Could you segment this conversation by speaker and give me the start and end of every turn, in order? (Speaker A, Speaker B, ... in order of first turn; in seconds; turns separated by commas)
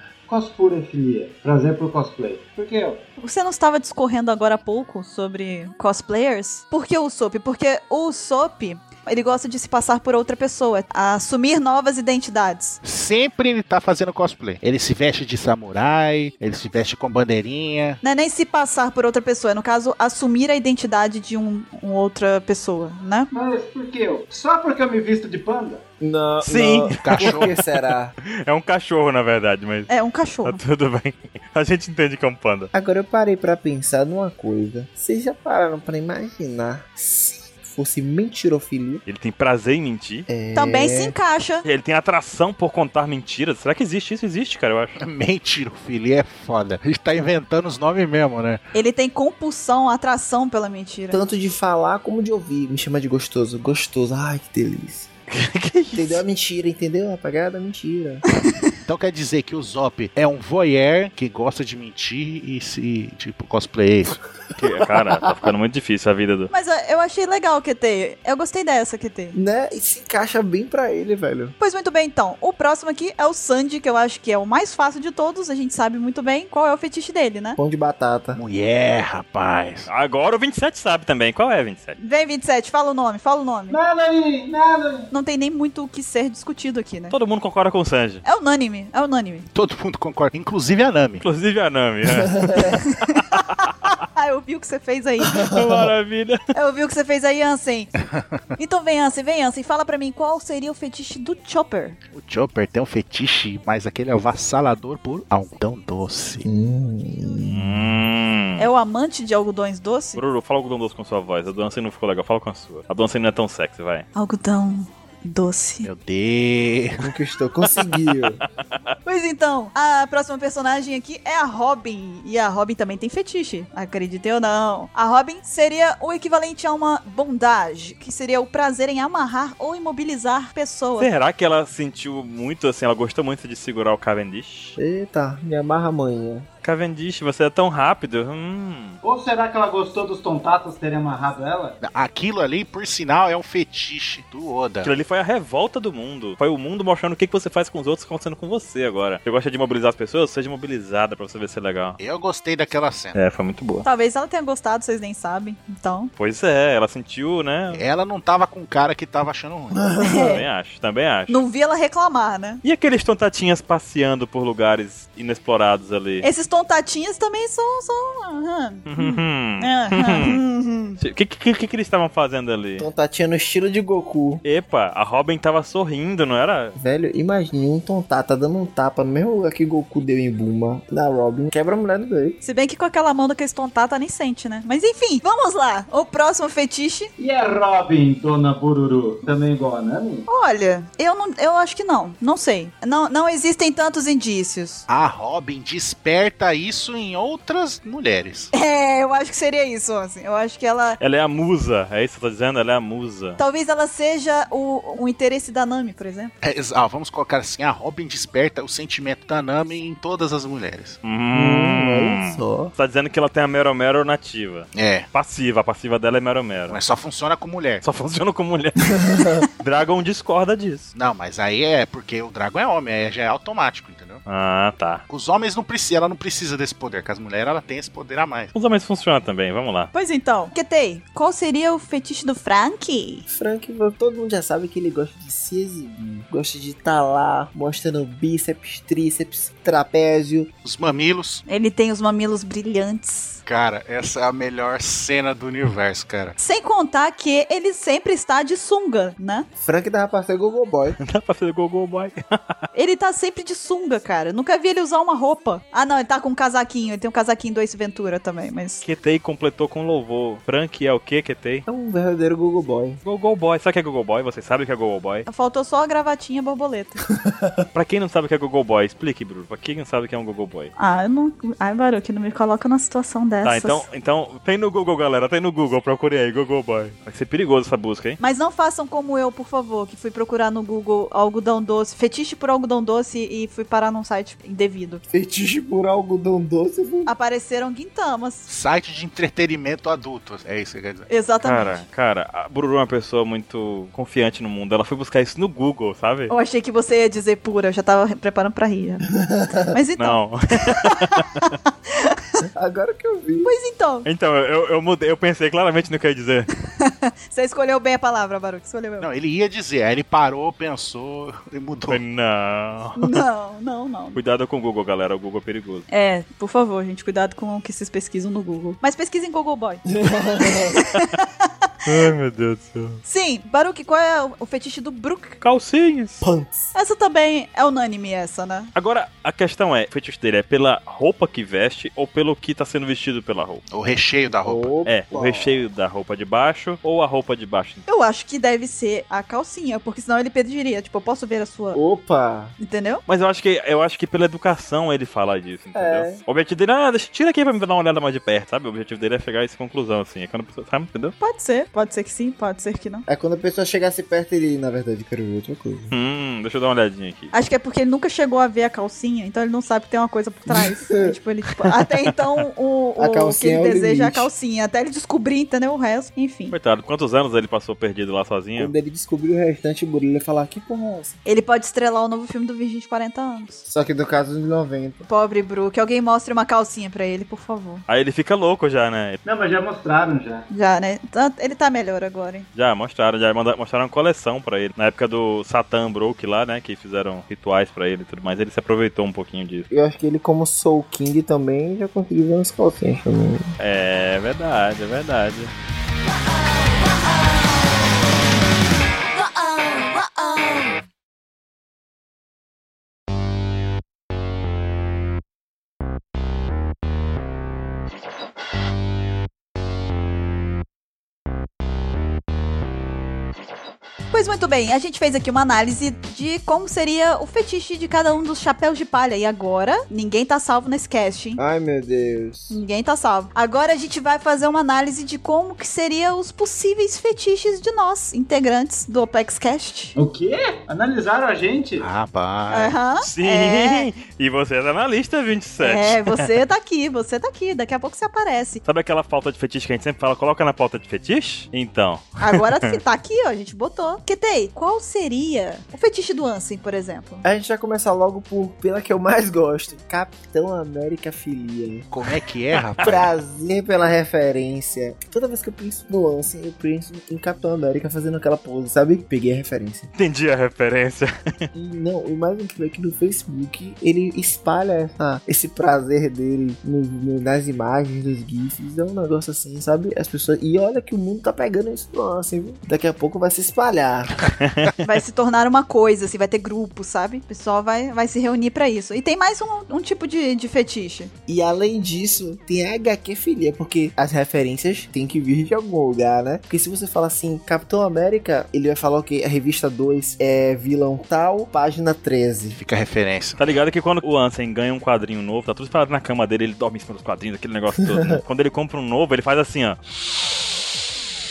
Speaker A: 0.3-3.0, Speaker B: 3.2-12.8, Speaker C: 12.8-18.0, Speaker B: 18.0-23.3, Speaker A: 23.3-25.9, Speaker D: 26.0-28.1, Speaker E: 26.4-27.5, Speaker C: 27.0-27.6, Speaker E: 28.3-29.9, Speaker B: 29.9-30.6, Speaker E: 30.4-32.7, Speaker D: 32.7-39.0, Speaker E: 39.1-40.3, Speaker D: 40.3-41.1, Speaker B: 40.5-41.6, Speaker E: 41.6-45.0, Speaker C: 45.0-48.6, Speaker B: 48.7-51.2, Speaker D: 51.1-55.1, Speaker E: 55.3-56.2, Speaker D: 55.9-58.2, Speaker C: 58.9-64.2, Speaker E: 64.6-66.5, Speaker B: 66.5-69.4, Speaker D: 69.3-71.5, Speaker B: 71.6-77.6, Speaker D: 77.6-78.4, Speaker C: 78.3-79.9, Speaker E: 79.9-82.0, Speaker B: 82.0-83.8, Speaker A: 83.7-85.1, Speaker B: 85.1-87.2, Speaker E: 87.1-88.2, Speaker B: 88.2-89.5, Speaker C: 89.5-91.2, Speaker E: 91.2-93.7, Speaker B: 93.1-95.5, Speaker D: 95.5-95.9, Speaker E: 95.5-96.4, Speaker B: 96.5-97.9, Speaker B: 98.6-102.0, Speaker C: 102.1-106.5, Speaker D: 106.5-107.8, Speaker E: 107.5-108.7, Speaker B: 108.6-110.2, Speaker E: 110.2-114.1, Speaker B: 114.2-115.9, Speaker C: 115.8-117.1, Speaker D: 117.0-118.4, Speaker B: 119.0-131.1, Speaker E: 131.0-134.8, Speaker D: 134.8-136.5, Speaker E: 136.6-139.0, Speaker A: 139.0-141.8, Speaker C: 141.8-144.9, Speaker E: 144.8-152.0, Speaker C: 152.0-153.2, Speaker E: 153.2-153.9, Speaker B: 153.8-156.1, Speaker E: 156.2-157.8, Speaker C: 157.7-159.9, Speaker D: 159.8-160.4, Speaker B: 160.0-160.4, Speaker E: 160.1-161.4, Speaker B: 161.3-162.6, Speaker E: 162.6-166.3, Speaker B: 166.2-171.0, Speaker E: 168.9-170.4, Speaker E: 171.0-172.9, Speaker D: 172.8-174.4, Speaker E: 174.4-176.8, Speaker D: 176.8-182.4, Speaker B: 182.4-187.1, Speaker A: 187.2-190.3, Speaker B: 190.3-194.9, Speaker C: 194.9-198.5, Speaker B: 198.5-201.0, Speaker E: 201.0-203.4, Speaker B: 203.4-206.3, Speaker C: 206.4-211.0, Speaker E: 211.0-216.8, Speaker D: 211.3-212.7, Speaker C: 214.7-215.1, Speaker C: 216.7-217.8, Speaker E: 217.8-220.9, Speaker C: 220.9-224.2, Speaker E: 224.3-225.0, Speaker C: 225.1-228.5, Speaker E: 228.5-229.9, Speaker B: 229.9-233.2, Speaker D: 233.3-240.5, Speaker C: 240.6-241.4, Speaker B: 241.5-243.4, Speaker C: 243.4-246.4, Speaker B: 246.4-249.5, Speaker D: 249.6-251.0, Speaker E: 251.0-252.6, Speaker B: 252.8-258.8, Speaker E: 258.8-261.7, Speaker D: 261.7-263.0, Speaker E: 263.0-265.3, Speaker B: 265.3-267.0, Speaker D: 267.2-267.6, Speaker E: 267.7-270.7, Speaker B: 270.8-273.9, Speaker E: 273.4-278.2, Speaker B: 278.2-285.0, Speaker D: 285.1-287.1, Speaker B: 287.1-288.5, Speaker C: 288.5-291.1, Speaker B: 291.1-291.8, Speaker E: 291.4-296.3, Speaker B: 296.3-299.1, Speaker D: 299.3-299.6, Speaker B: 299.7-302.2, Speaker E: 300.0-301.2, Speaker D: 302.5-303.5, Speaker B: 303.4-304.1, Speaker E: 304.1-306.5, Speaker B: 306.8-309.1, Speaker C: 309.0-312.0, Speaker E: 311.9-313.1, Speaker B: 313.0-314.2, Speaker E: 314.1-315.9, Speaker B: 315.9-319.9, Speaker D: 319.9-320.8, Speaker B: 320.4-321.7, Speaker E: 321.9-323.0, Speaker B: 323.1-325.4, Speaker E: 325.4-326.3, Speaker D: 326.2-326.7, Speaker B: 326.7-328.7, Speaker E: 328.8-333.6, Speaker C: 333.7-334.7, Speaker D: 334.4-335.6, Speaker E: 334.9-337.8, Speaker B: 337.9-341.8, Speaker D: 341.7-342.6, Speaker B: 342.6-343.0, Speaker E: 343.1-351.1, Speaker D: 345.8-346.2, Speaker B: 351.2-353.1, Speaker D: 353.1-355.9, Speaker E: 355.9-357.3, Speaker B: 357.3-366.6, Speaker D: 360.5-361.2, Speaker D: 363.0-364.3, Speaker E: 366.5-368.7, Speaker D: 368.6-371.2, Speaker B: 371.3-373.6, Speaker D: 373.6-375.1, Speaker B: 375.1-377.8, Speaker E: 377.9-379.2, Speaker A: 379.2-380.5, Speaker B: 380.5-382.5, Speaker E: 382.6-389.7, Speaker D: 389.7-393.6, Speaker E: 393.6-395.5, Speaker B: 399.6-400.1, Speaker B: 414.1-421.4, Speaker D: 421.4-422.6, Speaker B: 422.5-429.9, Speaker A: 430.0-431.9, Speaker C: 431.8-432.8, Speaker B: 432.5-433.9, Speaker E: 433.0-436.3, Speaker B: 435.6-438.6, Speaker E: 438.6-442.8, Speaker B: 442.2-447.2, Speaker D: 447.2-451.9, Speaker C: 451.9-453.1, Speaker E: 452.6-452.9, Speaker D: 452.8-459.9, Speaker E: 459.9-461.4, Speaker D: 461.5-474.1, Speaker E: 474.4-474.7, Speaker B: 474.8-481.1, Speaker D: 481.3-492.6, Speaker C: 492.6-493.4, Speaker E: 493.4-500.6